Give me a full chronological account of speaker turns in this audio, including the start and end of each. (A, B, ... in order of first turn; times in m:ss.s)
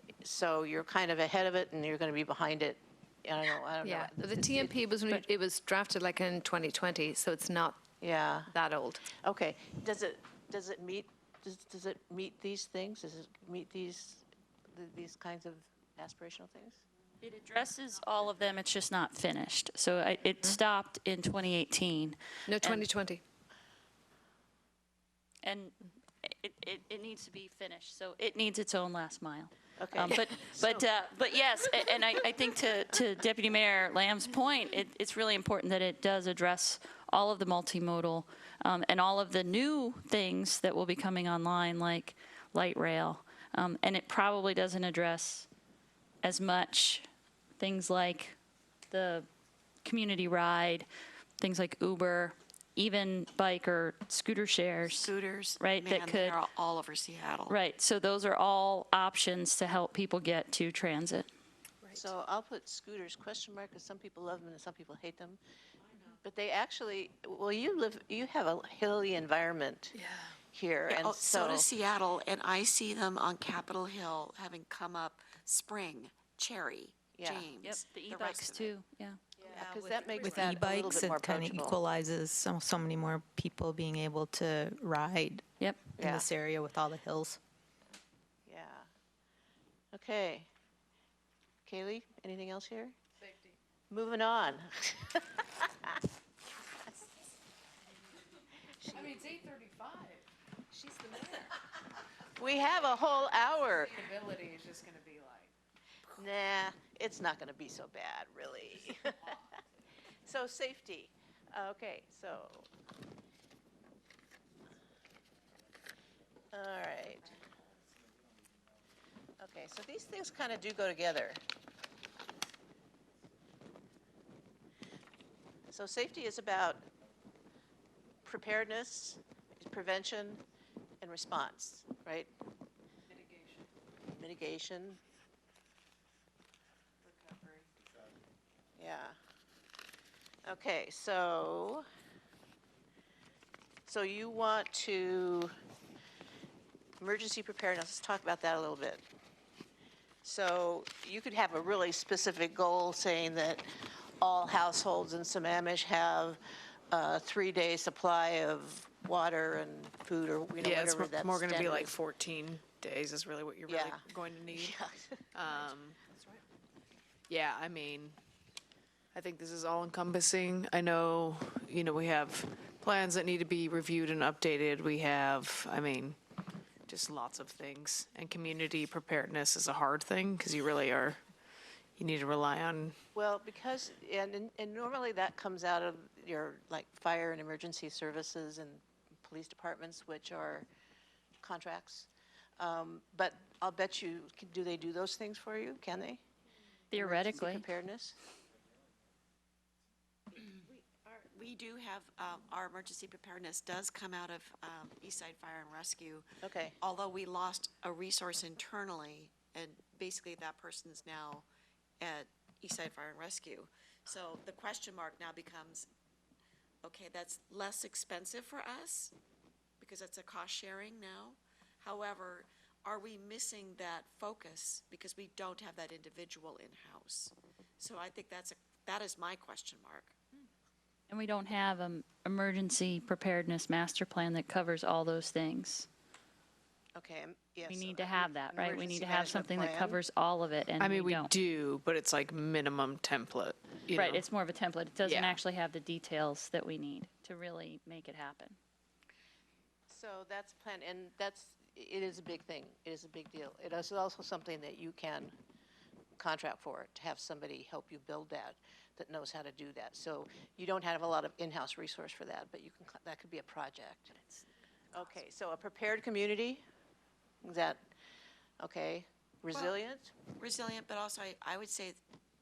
0:00.2-0:04.9 A
0:03.8-0:07.9 B
0:08.0-0:08.5 A
0:08.5-0:09.1 B
0:09.1-0:16.8 A
0:17.2-0:22.9 C
0:22.5-0:23.2 B
0:25.4-0:45.5 C
0:29.8-0:30.8 A
0:46.2-0:47.0 C
0:47.6-0:48.4 C
0:48.9-0:49.3 C
0:49.8-0:50.9 C
0:51.4-0:56.4 C
0:54.9-0:57.6 D
0:57.5-1:01.3 C
1:01.8-1:02.1 B
1:02.0-1:05.4 A
1:06.2-1:10.0 A
1:10.0-1:10.3 E
1:10.5-1:11.7 A
1:10.9-1:18.7 D
1:17.2-1:17.5 A
1:17.6-1:19.2 C
1:19.5-1:20.4 D
1:19.5-1:21.8 A
1:20.2-1:25.4 F
1:26.0-1:26.3 A
1:26.0-1:27.4 F
1:28.5-1:28.9 A
1:29.9-1:30.5 A
1:31.6-1:33.0 A
1:33.9-1:36.0 A
1:38.8-1:39.2 A
1:38.9-1:40.3 E
1:39.0-1:39.4 B
1:40.7-1:41.5 B
1:42.4-1:44.1 A
1:43.8-1:45.5 E
1:46.2-1:49.4 A
1:50.2-1:52.7 A
1:56.5-1:57.4 A
1:59.4-2:01.4 A
2:05.7-2:06.9 A
2:08.2-2:10.4 A
2:11.0-2:12.3 A
2:13.1-2:13.7 E
2:14.1-2:15.0 A
2:17.0-2:17.7 E
2:18.8-2:19.2 A
2:20.5-2:21.8 A
2:23.9-2:25.5 A
2:27.0-2:29.0 A
2:30.2-2:33.7 A
2:34.2-2:36.4 A
2:36.9-2:42.0 A
2:40.6-2:44.8 E
2:43.7-2:45.3 A
2:45.4-2:46.0 E
2:47.3-2:48.2 E
2:49.1-2:56.2 E
2:56.9-3:01.2 E
3:02.0-3:03.0 E
3:03.2-3:10.7 A
3:11.4-3:16.2 A
3:16.9-3:17.7 C
3:16.9-3:18.2 A
3:20.3-3:26.3 D
3:26.4-3:26.8 A
3:26.8-3:31.4 D
3:32.0-3:35.9 D
3:36.8-3:39.1 D
3:39.8-3:50.2 D
3:51.1-3:55.9 C
3:57.0-4:00.0 A
3:57.7-4:01.3 C
4:00.8-4:04.2 E
4:03.9-4:08.6 C
4:05.0-4:05.4 E
4:09.9-4:15.3 A
4:16.2-4:24.1 A
4:24.9-4:26.6 A
4:27.4-4:27.8 A
4:28.6-4:30.1 A
4:30.4-4:32.0 D